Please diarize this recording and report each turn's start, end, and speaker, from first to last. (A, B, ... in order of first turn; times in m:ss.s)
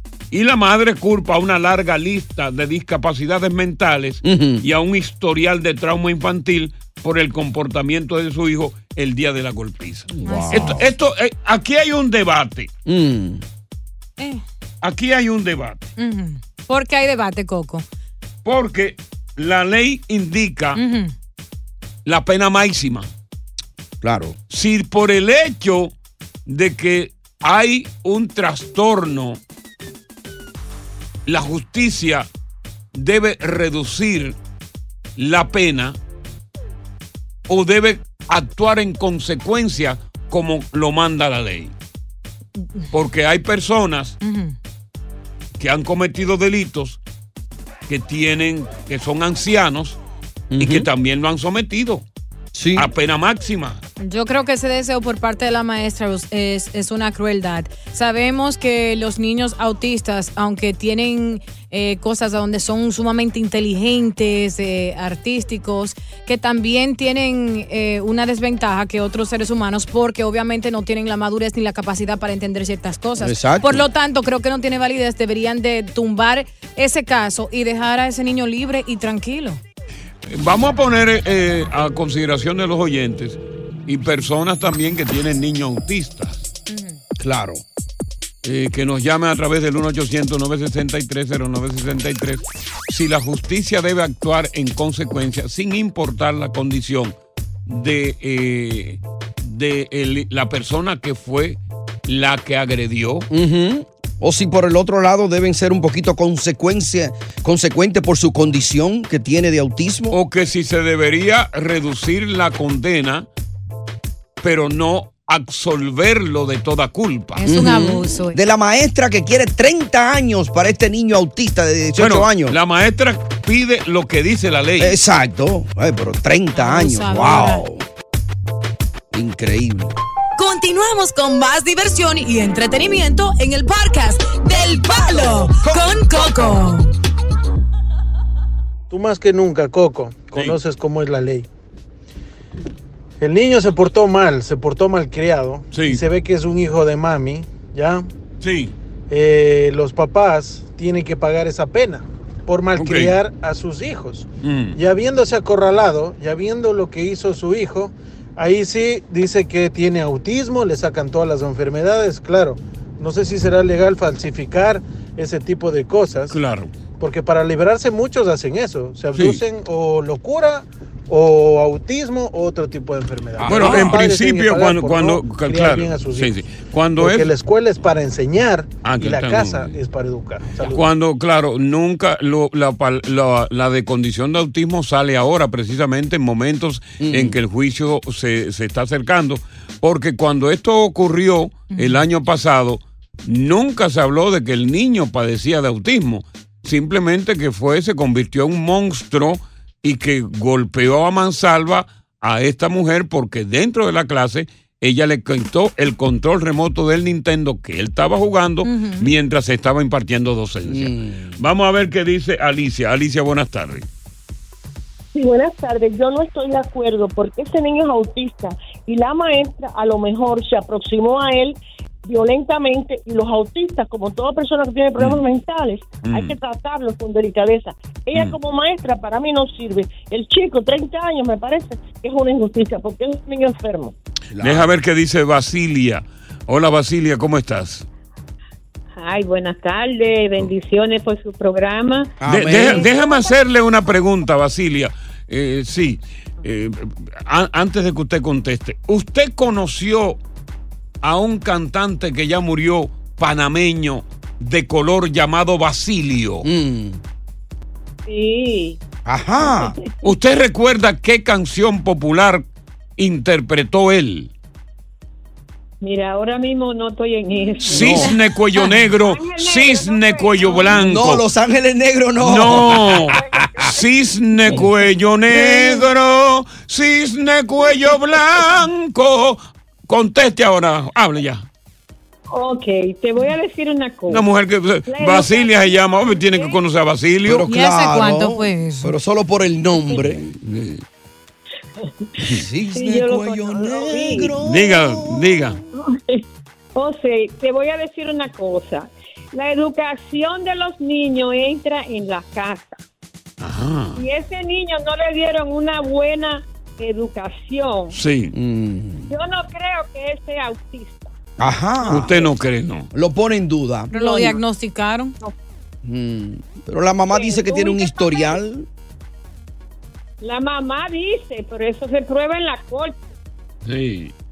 0:00.3-0:12.7 A
0:04.2-0:04.7 B
0:10.1-0:10.8 B
0:10.2-0:10.8 C
0:12.9-0:13.4 B
0:14.8-0:15.9 A
0:16.0-0:17.8 C
0:18.4-0:20.8 A
0:20.8-0:21.1 C
0:22.0-0:23.1 A
0:24.0-0:24.4 B
0:24.5-0:25.9 A
0:26.5-0:29.4 A
0:31.3-0:32.3 A
0:32.9-0:34.4 A
0:35.2-0:36.0 A
0:37.5-0:41.7 A
0:42.9-0:44.2 A
0:44.2-0:44.6 C
0:45.6-0:47.0 A
0:47.9-0:50.0 A
0:50.5-0:50.9 B
0:50.6-0:52.0 A
0:52.5-0:52.9 B
0:52.8-0:53.8 A
0:54.0-1:19.6 C
1:13.2-1:13.8 B
1:20.3-1:26.5 A
1:26.7-1:27.0 C
1:27.2-1:27.6 B
1:28.4-1:37.2 A
1:37.7-1:43.3 A
1:43.3-1:50.2 B
1:50.1-1:53.3 A
1:54.4-1:57.9 A
1:57.4-1:58.4 C
1:57.5-2:02.6 B
2:02.0-2:05.0 A
2:04.8-2:07.8 B
2:06.5-2:07.6 C
2:09.1-2:09.9 B
2:10.4-2:16.9 D
2:15.1-2:16.6 B
2:18.9-2:21.5 E
2:23.2-2:28.1 E
2:25.7-2:26.0 A
2:28.4-2:28.7 A
2:29.1-2:46.4 E
2:32.8-2:33.2 A
2:34.4-2:34.8 A
2:46.3-2:46.7 A
2:47.0-2:56.4 E
2:49.2-2:49.4 A
2:53.4-2:54.0 B
2:53.4-2:57.3 A
2:57.0-3:00.8 E
2:58.8-2:59.8 A
3:00.7-3:33.9 A
3:07.0-3:07.4 B
3:11.7-3:12.0 C
3:28.6-3:29.1 C
3:30.6-3:31.4 B
3:35.1-3:53.9 F
3:45.0-3:45.2 A
3:46.0-3:46.4 A
3:48.1-3:48.4 A
3:54.3-3:54.7 B
3:54.4-3:57.9 A
3:59.0-4:03.3 G
4:02.2-4:02.9 B
4:02.3-4:10.2 A
4:11.0-4:16.5 A
4:16.4-4:17.0 B
4:18.1-4:18.8 G
4:19.0-4:19.8 B
4:19.4-4:19.9 G
4:20.0-4:22.5 A
4:23.0-4:24.3 A
4:25.8-4:28.2 G
4:27.6-4:31.2 A
4:27.7-4:28.1 B
4:28.9-4:30.8 G
4:30.7-4:33.6 B
4:32.2-4:33.2 A
4:33.7-4:41.5 A
4:35.3-4:35.8 G
4:42.3-4:44.2 G
4:44.1-4:47.5 A
4:44.9-4:46.6 G
4:47.3-4:50.4 B
4:47.4-4:49.0 C
4:50.4-4:50.8 A
4:52.2-4:55.4 B
4:52.7-4:54.4 G
4:54.4-4:55.6 A
4:55.7-4:56.2 G
4:56.8-5:02.8 G
5:03.4-5:04.0 A
5:04.0-5:08.0 G
5:07.9-5:08.3 A
5:08.3-5:09.1 B
5:09.1-5:11.1 G
5:11.4-5:12.2 B
5:11.9-5:12.9 A
5:12.9-5:14.0 B
5:13.9-5:15.2 C
5:15.8-5:18.7 B
5:17.1-5:18.4 G
5:20.2-5:23.1 G
5:23.7-5:24.1 A